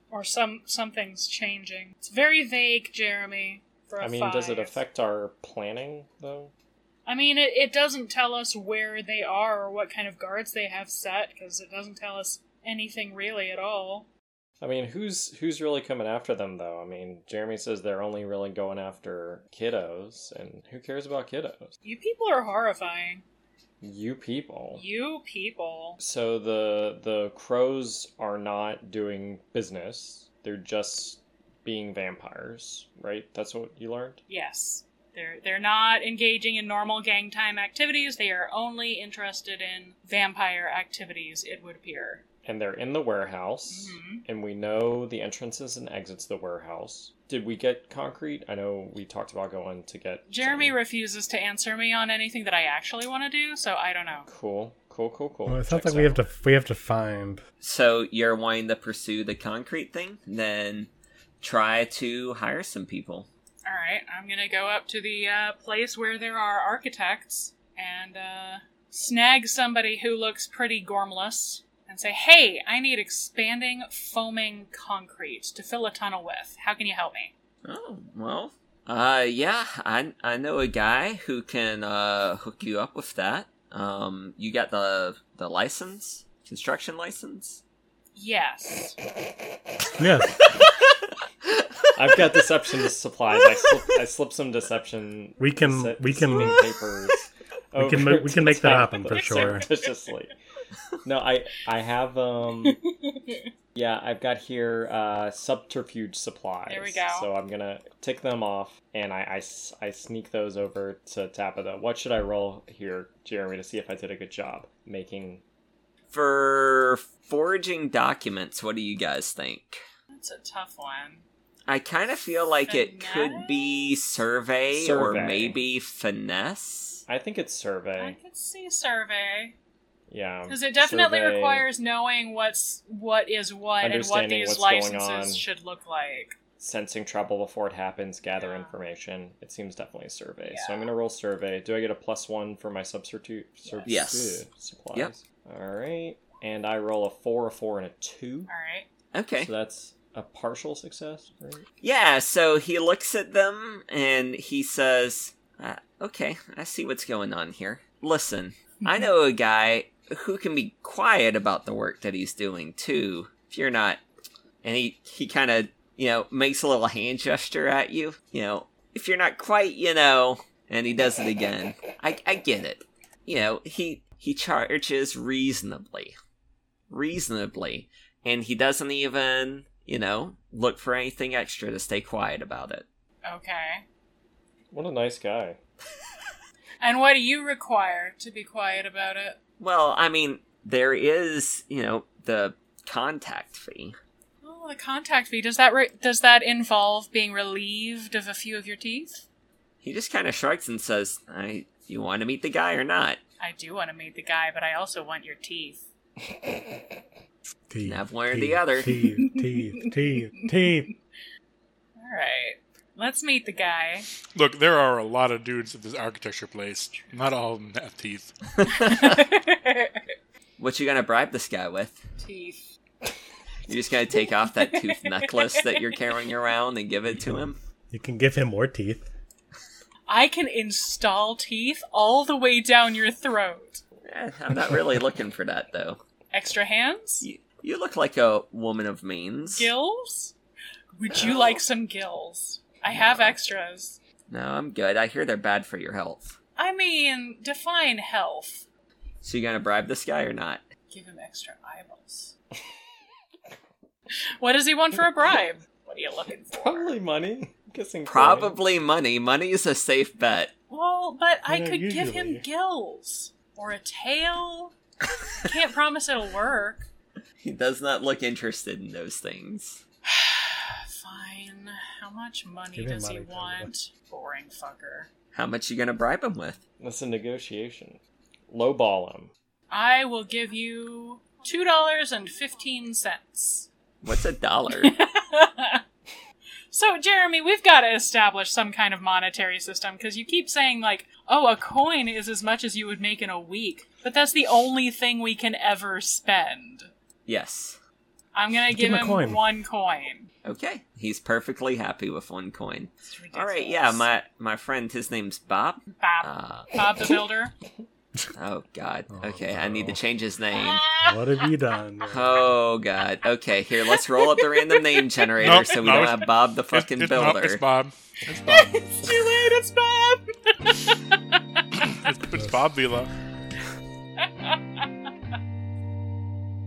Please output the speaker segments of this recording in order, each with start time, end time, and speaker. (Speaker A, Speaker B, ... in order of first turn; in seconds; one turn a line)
Speaker A: 0.1-4.7
Speaker B: 4.0-6.5
Speaker A: 7.0-14.1
Speaker B: 14.6-21.7
Speaker A: 21.8-23.2
Speaker B: 23.8-24.8
Speaker A: 24.8-26.0
Speaker B: 26.0-34.2
Speaker A: 34.3-42.2
Speaker B: 42.4-50.8
Speaker A: 43.7-44.2
Speaker A: 50.3-54.3
Speaker B: 54.2-56.2
Speaker C: 55.5-57.4
Speaker D: 57.6-60.9
Speaker D: 61.4-63.3
Speaker A: 63.6-77.3
Speaker D: 77.6-87.6
Speaker A: 88.2-89.0
Speaker C: 90.0-90.4
Speaker D: 90.4-90.7
Speaker B: 91.9-100.3
Speaker C: 95.4-96.6
Speaker A: 96.3-96.6
Speaker C: 97.8-99.7
Speaker A: 99.1-99.9
Speaker B: 101.0-102.8
Speaker A: 102.7-103.4
Speaker B: 103.7-115.4
Speaker A: 106.7-107.3
Speaker D: 116.1-119.8
Speaker A: 120.1-121.2
Speaker D: 121.7-127.0
Speaker A: 122.6-123.9
Speaker B: 124.7-125.6
Speaker B: 127.1-128.2
Speaker A: 128.0-129.5
Speaker B: 130.1-131.7
Speaker A: 130.5-136.4
Speaker B: 133.8-135.4
Speaker B: 136.6-148.5
Speaker A: 138.4-138.7
Speaker A: 140.5-140.9
Speaker A: 143.6-143.9
Speaker D: 143.8-144.4
Speaker A: 148.5-148.8
Speaker D: 149.1-149.5
Speaker B: 149.4-151.6
Speaker D: 151.8-164.0
Speaker D: 164.6-176.2
Speaker D: 176.9-182.8
Speaker A: 183.2-183.8
Speaker B: 184.7-185.6
Speaker A: 186.8-189.4
Speaker D: 189.6-194.0
Speaker A: 194.4-199.2
Speaker D: 199.8-203.2
Speaker A: 203.4-205.8
Speaker C: 207.7-210.9
Speaker D: 207.8-208.9
Speaker A: 209.2-209.9
Speaker A: 210.6-210.9
Speaker A: 212.0-214.1
Speaker E: 214.3-218.3
Speaker D: 218.6-219.3
Speaker A: 218.7-220.0
Speaker D: 220.6-222.0
Speaker A: 222.2-222.7
Speaker D: 223.7-227.6
Speaker A: 224.6-225.8
Speaker C: 227.9-229.1
Speaker A: 230.1-233.8
Speaker D: 234.0-236.0
Speaker A: 236.3-237.2
Speaker D: 237.2-239.7
Speaker A: 239.5-240.3
Speaker A: 241.0-244.0
Speaker D: 241.1-241.6
Speaker D: 242.9-243.3
Speaker D: 244.3-246.4
Speaker A: 246.6-248.6
Speaker D: 249.2-250.6
Speaker A: 250.9-252.3
Speaker A: 254.4-256.9
Speaker B: 256.5-258.6
Speaker D: 258.1-260.5
Speaker A: 260.7-264.7
Speaker C: 261.5-262.4
Speaker A: 265.4-266.8
Speaker D: 267.4-269.8
Speaker A: 270.1-275.1
Speaker C: 272.7-273.7
Speaker D: 275.3-276.6
Speaker B: 276.8-279.3
Speaker A: 279.7-283.7
Speaker D: 284.0-285.0
Speaker A: 284.7-285.8
Speaker A: 286.7-296.9
Speaker D: 297.3-297.8
Speaker A: 298.3-300.3
Speaker C: 298.7-299.4
Speaker D: 300.4-306.7
Speaker A: 303.0-304.1
Speaker A: 305.9-307.5
Speaker D: 308.3-310.9
Speaker C: 309.1-310.0
Speaker A: 310.6-311.2
Speaker C: 311.0-312.5
Speaker D: 312.1-317.6
Speaker A: 313.9-315.6
Speaker E: 315.4-319.2
Speaker A: 318.5-321.4
Speaker E: 321.8-323.1
Speaker C: 322.3-322.6